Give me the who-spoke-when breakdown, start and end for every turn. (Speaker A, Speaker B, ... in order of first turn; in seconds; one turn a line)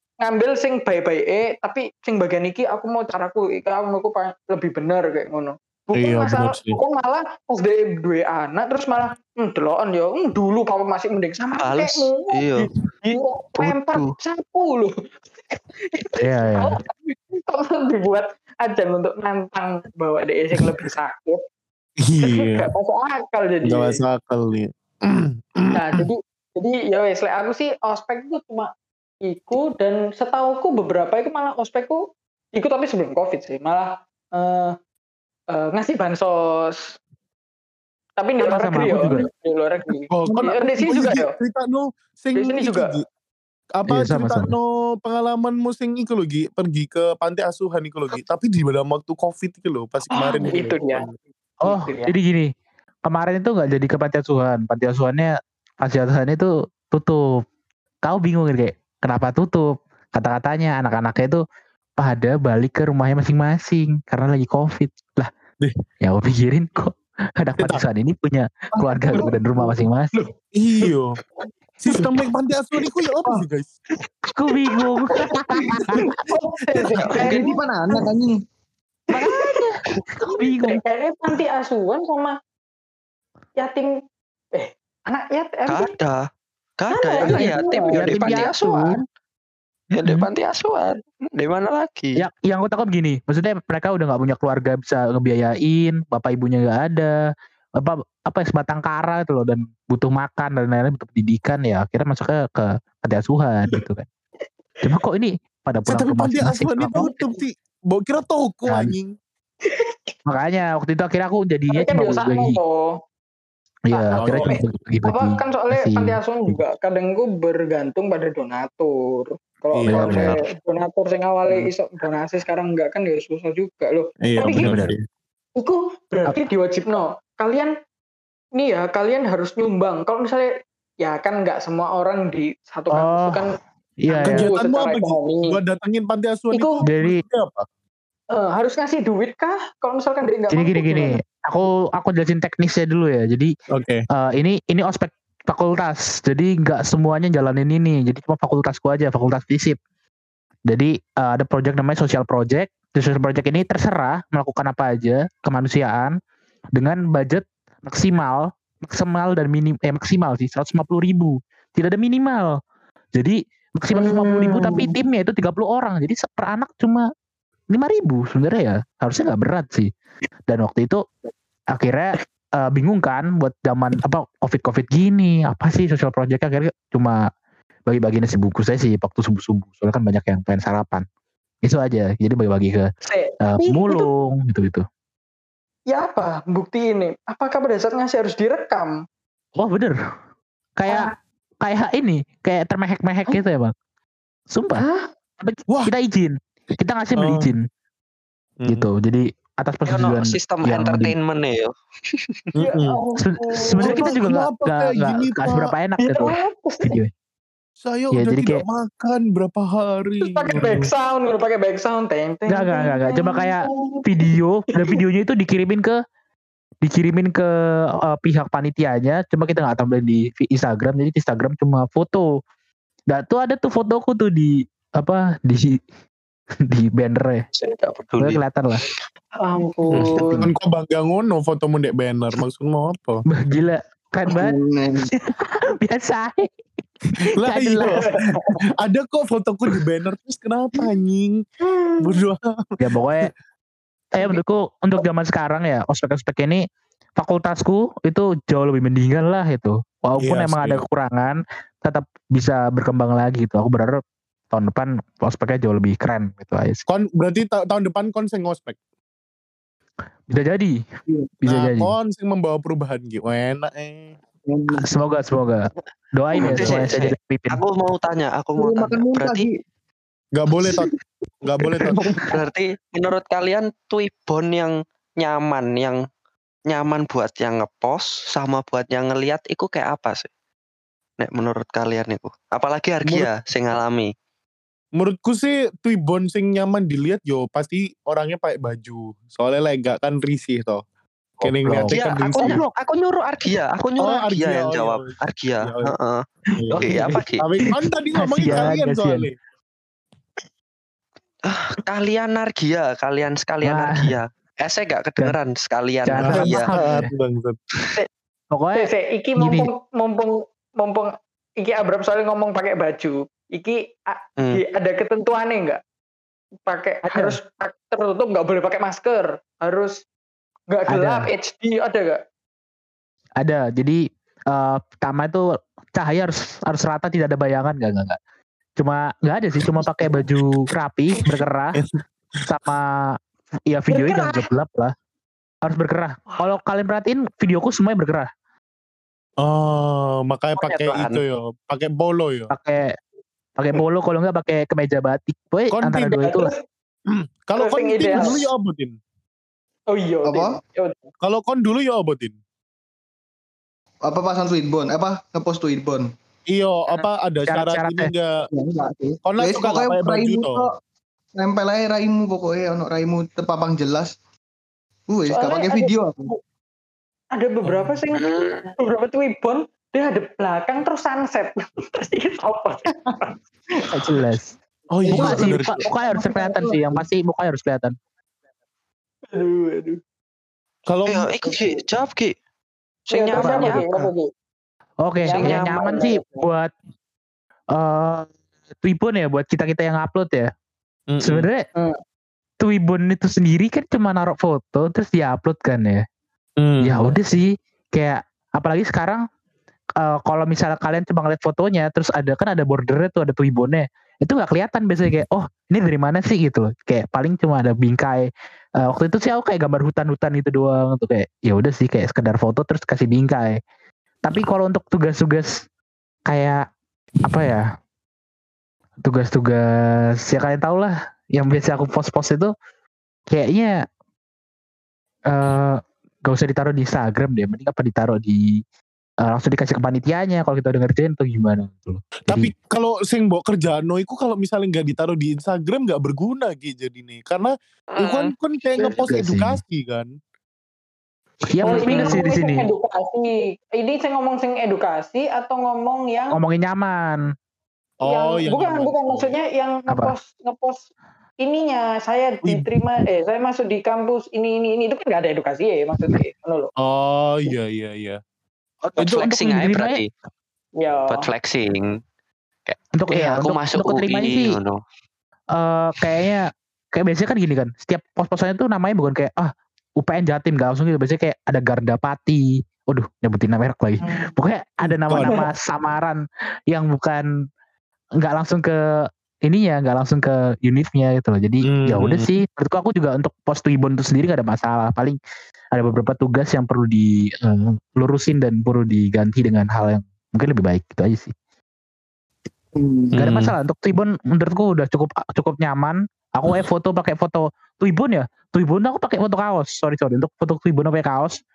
Speaker A: 0.2-14.9
Speaker B: 6.0-6.8
Speaker C: 11.6-12.7
Speaker C: 13.6-14.1
Speaker A: 15.5-21.4
Speaker D: 16.1-16.7
Speaker B: 22.0-22.7
Speaker A: 22.2-24.0
Speaker B: 23.6-26.1
Speaker A: 25.7-28.7
Speaker A: 29.2-32.0
Speaker A: 32.5-34.7
Speaker A: 35.5-36.9
Speaker A: 38.2-41.3
Speaker D: 38.4-39.3
Speaker B: 40.1-43.0
Speaker A: 42.4-42.9
Speaker B: 43.8-51.2
Speaker D: 43.9-44.5
Speaker A: 50.1-51.0
Speaker D: 51.6-52.5
Speaker A: 51.6-52.1
Speaker D: 53.0-55.3
Speaker D: 55.8-57.4
Speaker D: 58.0-61.4
Speaker D: 62.0-65.3
Speaker D: 66.0-70.1
Speaker E: 68.7-70.3
Speaker B: 70.5-71.1
Speaker B: 71.8-73.7
Speaker D: 74.3-76.0
Speaker E: 75.8-76.1
Speaker A: 76.3-78.1
Speaker E: 77.1-78.4
Speaker D: 79.1-80.8
Speaker A: 79.2-79.6
Speaker A: 80.4-82.3
Speaker A: 83.6-84.0
Speaker A: 84.5-85.9
Speaker C: 85.7-86.2
Speaker C: 86.8-88.9
Speaker A: 86.9-88.9
Speaker D: 87.2-88.9
Speaker D: 90.0-90.3
Speaker C: 90.0-92.2
Speaker D: 92.2-97.1
Speaker D: 97.8-104.0
Speaker D: 104.8-107.2
Speaker B: 105.9-109.1
Speaker D: 108.7-108.9
Speaker A: 109.6-109.9
Speaker D: 110.3-112.6
Speaker A: 111.7-113.0
Speaker D: 113.9-116.6
Speaker A: 113.9-124.8
Speaker B: 114.2-114.6
Speaker B: 119.7-120.4
Speaker D: 119.9-120.4
Speaker B: 124.2-125.0
Speaker D: 124.6-124.9
Speaker A: 125.5-127.7
Speaker A: 128.6-130.5
Speaker A: 131.0-133.5
Speaker D: 132.9-133.4
Speaker D: 134.0-134.5
Speaker A: 134.1-135.6
Speaker B: 134.2-137.6
Speaker A: 136.5-136.8
Speaker D: 136.8-137.2
Speaker A: 138.3-141.2
Speaker D: 140.5-143.5
Speaker B: 143.7-144.0
Speaker D: 144.1-149.8
Speaker D: 150.7-156.1
Speaker D: 156.8-162.6
Speaker D: 163.1-167.1
Speaker A: 163.9-164.9
Speaker D: 167.7-169.9
Speaker D: 170.5-171.0
Speaker D: 171.7-177.2
Speaker D: 177.8-181.0
Speaker D: 181.6-182.9
Speaker A: 183.0-184.1
Speaker D: 183.4-184.8
Speaker A: 185.9-189.0
Speaker D: 189.6-189.9
Speaker D: 190.8-191.1
Speaker D: 191.6-193.7
Speaker D: 194.5-194.8
Speaker A: 194.8-195.1
Speaker D: 195.4-197.6
Speaker B: 197.2-197.5
Speaker B: 198.6-198.9
Speaker D: 198.7-201.1
Speaker C: 199.9-202.4
Speaker B: 202.6-203.0
Speaker A: 202.6-204.1
Speaker D: 203.2-207.1
Speaker B: 203.8-205.7
Speaker A: 206.0-207.0
Speaker B: 207.8-210.9
Speaker D: 208.1-208.6
Speaker A: 210.2-214.3
Speaker D: 212.5-215.9
Speaker D: 216.8-217.5
Speaker D: 218.1-222.3
Speaker D: 223.1-225.8
Speaker D: 226.7-227.4
Speaker C: 227.5-229.0
Speaker D: 228.2-228.8
Speaker A: 229.4-230.4
Speaker B: 229.9-233.2
Speaker D: 230.1-230.5
Speaker D: 233.3-234.6
Speaker E: 234.3-235.1
Speaker D: 235.1-236.5
Speaker D: 237.4-238.1
Speaker B: 237.4-238.2
Speaker A: 237.9-238.6
Speaker B: 238.8-241.4
Speaker A: 241.6-242.2
Speaker B: 242.0-242.8
Speaker D: 242.8-243.3
Speaker D: 244.1-246.6
Speaker D: 247.2-256.8
Speaker B: 250.2-250.8
Speaker B: 256.9-258.8
Speaker D: 260.3-260.8
Speaker D: 261.4-261.9
Speaker B: 261.5-264.2
Speaker E: 264.4-264.9
Speaker D: 264.7-267.6
Speaker C: 266.4-269.5
Speaker B: 266.5-266.7
Speaker E: 268.6-269.6
Speaker B: 270.3-270.9
Speaker B: 271.4-272.2
Speaker C: 272.3-276.0
Speaker C: 276.7-280.3
Speaker C: 281.2-284.1
Speaker B: 285.0-290.8
Speaker B: 291.4-292.6
Speaker D: 291.4-292.6
Speaker C: 291.9-296.2
Speaker B: 294.0-295.1
Speaker B: 295.6-295.9
Speaker B: 296.6-296.8
Speaker D: 296.7-297.2
Speaker C: 296.8-297.4
Speaker B: 297.4-299.3
Speaker D: 298.2-299.3
Speaker C: 301.4-306.7
Speaker D: 303.6-304.1
Speaker D: 306.1-307.1
Speaker B: 306.2-307.6
Speaker D: 308.5-309.7
Speaker A: 308.7-315.8
Speaker A: 316.6-320.0
Speaker D: 317.1-317.4
Speaker A: 320.7-322.2
Speaker D: 320.9-321.3
Speaker D: 323.4-324.0
Speaker D: 324.5-328.2
Speaker D: 328.8-331.8
Speaker B: 329.6-330.6
Speaker B: 331.2-331.9
Speaker D: 332.5-333.1
Speaker D: 333.7-334.9
Speaker A: 333.9-334.5
Speaker D: 335.6-338.3
Speaker B: 339.4-342.5
Speaker C: 340.6-341.2
Speaker D: 342.5-342.9
Speaker D: 343.6-346.5
Speaker B: 345.7-346.2
Speaker A: 346.2-346.6
Speaker B: 347.1-348.9
Speaker A: 347.6-348.4
Speaker A: 349.9-351.1
Speaker E: 350.2-350.6
Speaker B: 351.2-352.4
Speaker E: 354.1-356.1
Speaker B: 356.5-358.4
Speaker D: 357.5-358.1
Speaker E: 358.5-360.7
Speaker B: 359.2-360.6
Speaker E: 361.4-364.1
Speaker E: 365.1-366.3
Speaker A: 365.3-365.9
Speaker A: 367.3-368.3
Speaker B: 367.6-368.0
Speaker C: 368.1-368.7
Speaker A: 368.8-373.3
Speaker E: 372.9-373.2
Speaker D: 373.9-374.6
Speaker B: 374.9-375.8
Speaker E: 375.1-377.0
Speaker D: 375.1-377.9
Speaker A: 379.3-380.0
Speaker B: 380.9-381.3
Speaker C: 381.1-382.3
Speaker C: 383.1-383.8
Speaker A: 383.1-384.3
Speaker D: 383.4-384.1
Speaker D: 385.0-386.7
Speaker A: 385.2-386.4
Speaker C: 385.4-385.8
Speaker D: 387.7-390.5
Speaker B: 391.1-391.5
Speaker D: 391.2-391.6
Speaker D: 392.6-396.0
Speaker B: 396.6-397.1
Speaker D: 396.8-399.2
Speaker D: 400.0-408.3
Speaker D: 408.8-413.6
Speaker D: 414.2-415.6
Speaker D: 416.3-416.6
Speaker D: 417.2-417.7
Speaker D: 419.0-419.6
Speaker D: 420.2-422.5
Speaker D: 423.3-423.8
Speaker D: 425.3-428.6
Speaker D: 429.2-432.5
Speaker B: 432.3-440.1
Speaker C: 437.9-438.3
Speaker D: 438.8-439.6
Speaker D: 441.4-442.7
Speaker A: 441.6-446.3
Speaker D: 446.3-447.2
Speaker B: 448.0-449.3
Speaker A: 448.0-450.9
Speaker D: 449.9-450.1
Speaker A: 451.4-456.7
Speaker B: 456.8-458.2
Speaker D: 458.9-460.0
Speaker C: 459.0-460.1
Speaker A: 460.8-461.3
Speaker C: 461.1-462.0
Speaker C: 462.6-464.8
Speaker D: 462.9-464.5
Speaker D: 465.5-476.2
Speaker B: 474.8-475.5
Speaker D: 476.7-477.2
Speaker D: 478.2-478.7
Speaker D: 479.4-485.2
Speaker B: 481.6-482.3
Speaker D: 485.7-491.3
Speaker E: 492.8-493.1
Speaker B: 493.1-493.5
Speaker D: 493.2-501.4